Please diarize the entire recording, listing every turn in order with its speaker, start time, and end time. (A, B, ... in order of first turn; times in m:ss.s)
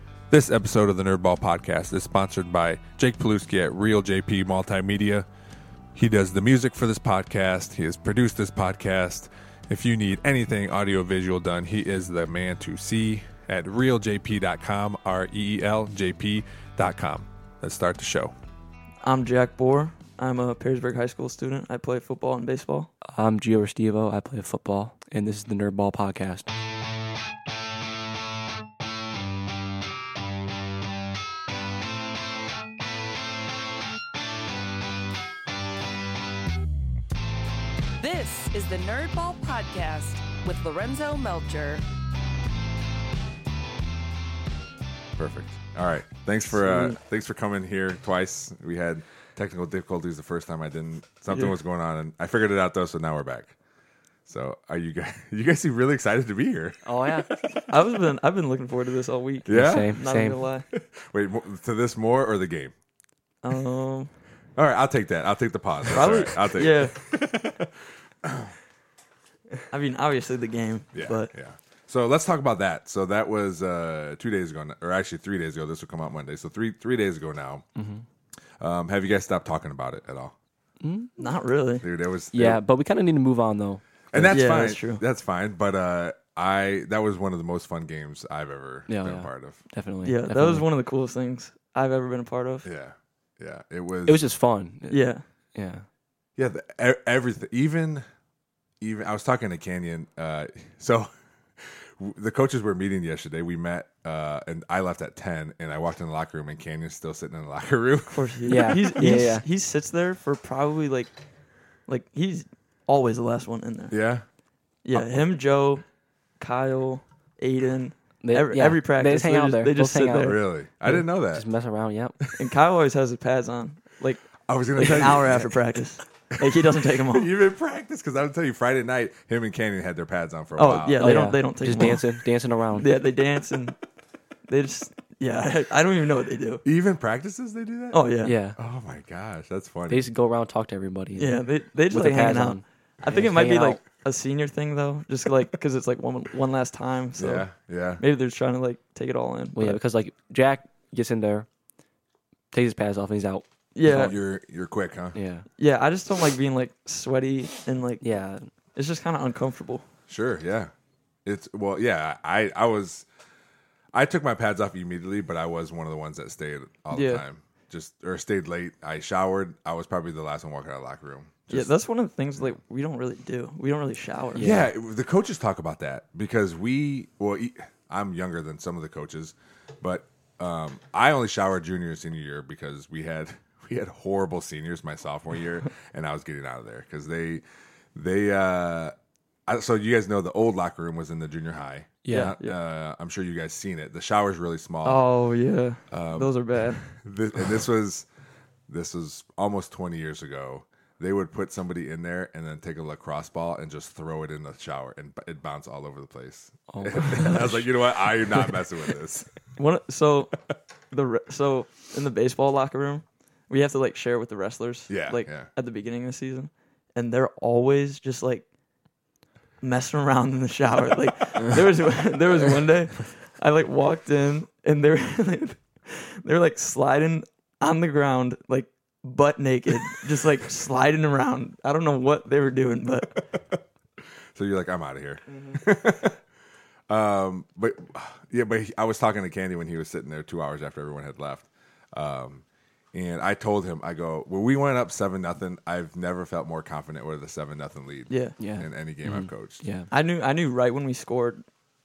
0:00.3-0:05.3 A
0:06.0-0:18.3 A
0:19.0-0:22.9 B
0:23.1-0:26.5 C
0:38.0-0:41.8 D
0:45.2-0:53.6 A
0:46.5-0:47.0 B
0:54.3-0:56.9 A
0:56.8-0:57.3 C
0:57.7-1:00.7 B
0:59.5-1:00.0 A
0:59.5-1:00.4 C
1:00.7-1:02.7 A
1:03.4-1:04.1 B
1:04.6-1:07.7 A
1:05.9-1:07.0 B
1:08.2-1:08.5 A
1:09.7-1:11.3 B
1:10.9-1:17.6 A
1:17.8-1:18.0 C
1:18.6-1:20.4 A
1:20.8-1:21.1 C
1:21.2-1:21.9 B
1:21.8-1:22.6 A
1:22.3-1:24.5 C
1:24.1-1:29.6 A
1:24.3-1:25.0 B
1:28.9-1:30.7 C
1:30.0-1:32.7 B
1:32.6-1:34.2 A
1:34.1-1:35.8 C
1:34.9-1:35.2 B
1:36.4-1:38.0 A
1:38.8-1:48.8 A
1:48.1-1:51.1 B
1:48.5-1:49.4 C
1:51.9-1:54.0 B
1:53.9-1:54.2 A
1:54.8-1:55.8 B
1:54.9-1:55.2 C
1:56.4-2:00.4 B
1:58.2-2:02.2 C
2:00.2-2:01.4 A
2:02.4-2:04.2 B
2:04.5-2:05.6 A
2:04.8-2:07.3 B
2:06.3-2:11.1 A
2:10.6-2:12.1 B
2:11.0-2:12.9 C
2:12.8-2:13.8 B
2:14.5-2:16.6 B
2:16.6-2:20.1 A
2:17.9-2:18.3 B
2:18.2-2:18.6 C
2:19.9-2:23.8 C
2:21.2-2:27.5 B
2:27.2-2:28.0 A
2:28.0-2:29.8 B
2:29.6-2:31.5 C
2:32.5-2:34.1 C
2:33.8-2:34.1 B
2:33.9-2:35.2 A
2:35.1-2:35.5 C
2:35.6-2:38.1 B
2:38.0-2:38.4 C
2:38.8-2:39.8 B
2:40.1-2:40.7 A
2:41.2-2:43.1 A
2:43.9-2:51.7 A
2:46.9-2:47.2 B
2:51.5-2:54.6 B
2:54.4-2:54.6 C
2:54.4-3:08.9 A
3:09.5-3:15.1 A
3:12.0-3:12.3 C
3:12.1-3:12.6 B
3:14.8-3:16.8 B
3:15.9-3:18.1 A
3:18.7-3:29.3 A
3:26.7-3:28.7 C
3:29.6-3:30.4 B
3:30.9-3:38.5 B
3:34.9-3:35.5 A
3:39.6-3:53.2 B
3:54.0-3:56.2 A
3:55.3-3:55.6 B
3:56.9-4:09.6 A
4:08.1-4:08.4 B
4:08.4-4:09.9 C
4:09.9-4:11.4 B